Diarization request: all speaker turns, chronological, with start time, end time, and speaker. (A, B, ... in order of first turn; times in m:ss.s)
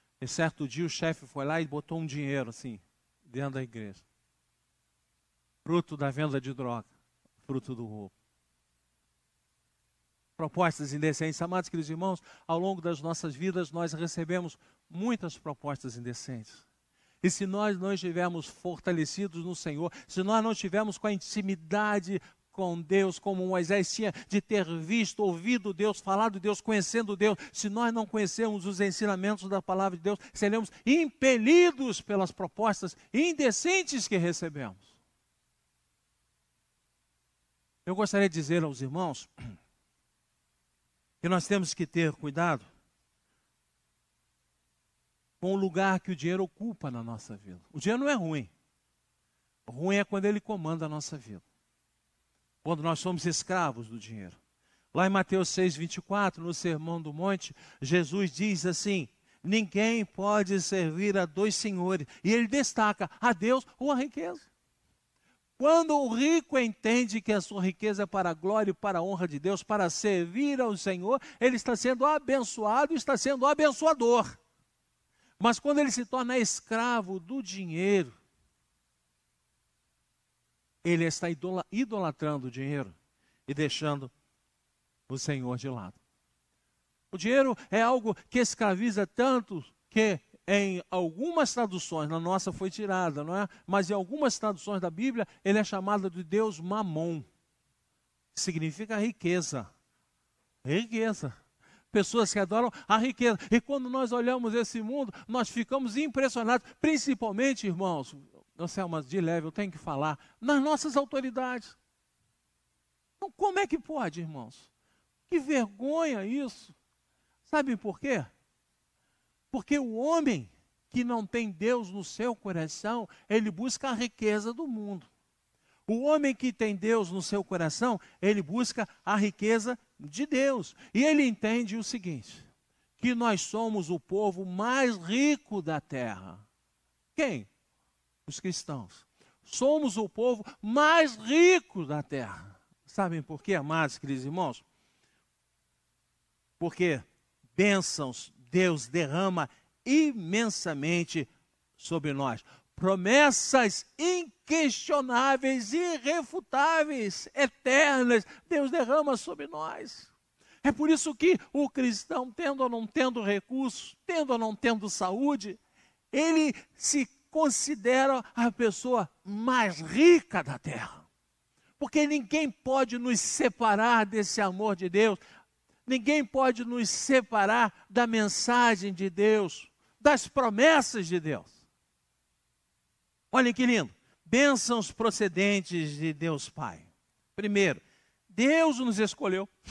0:00.2-0:04.0 A
0:05.6-0:06.9 A
0:07.4-0:08.1 A
0:10.4-0:16.6 A
0:17.2-0:34.9 A
0:37.8-0:39.5 A
0:41.2-0:42.7 A
0:45.4-0:48.5 A
0:49.6-0:51.4 A
0:52.6-0:54.4 A
0:54.9-1:04.5 A
1:05.6-1:14.4 A
1:15.4-1:18.1 A
1:20.8-1:22.9 A
1:23.5-1:24.1 A
1:25.1-1:26.0 A
1:27.1-1:37.2 A
1:38.3-1:39.7 A
1:40.6-1:41.4 A
1:41.9-1:51.8 A
1:53.2-1:54.7 A
1:55.3-1:56.8 A
1:57.4-1:58.3 A
1:59.5-2:05.1 A
2:05.9-2:12.5 A
2:13.0-2:16.4 A
2:17.2-2:17.5 A
2:18.2-2:24.6 A
2:26.6-2:40.1 A
2:40.6-2:45.6 A
2:46.1-2:51.0 A
2:51.8-2:55.2 A
2:55.9-3:01.6 A
3:03.3-3:09.5 A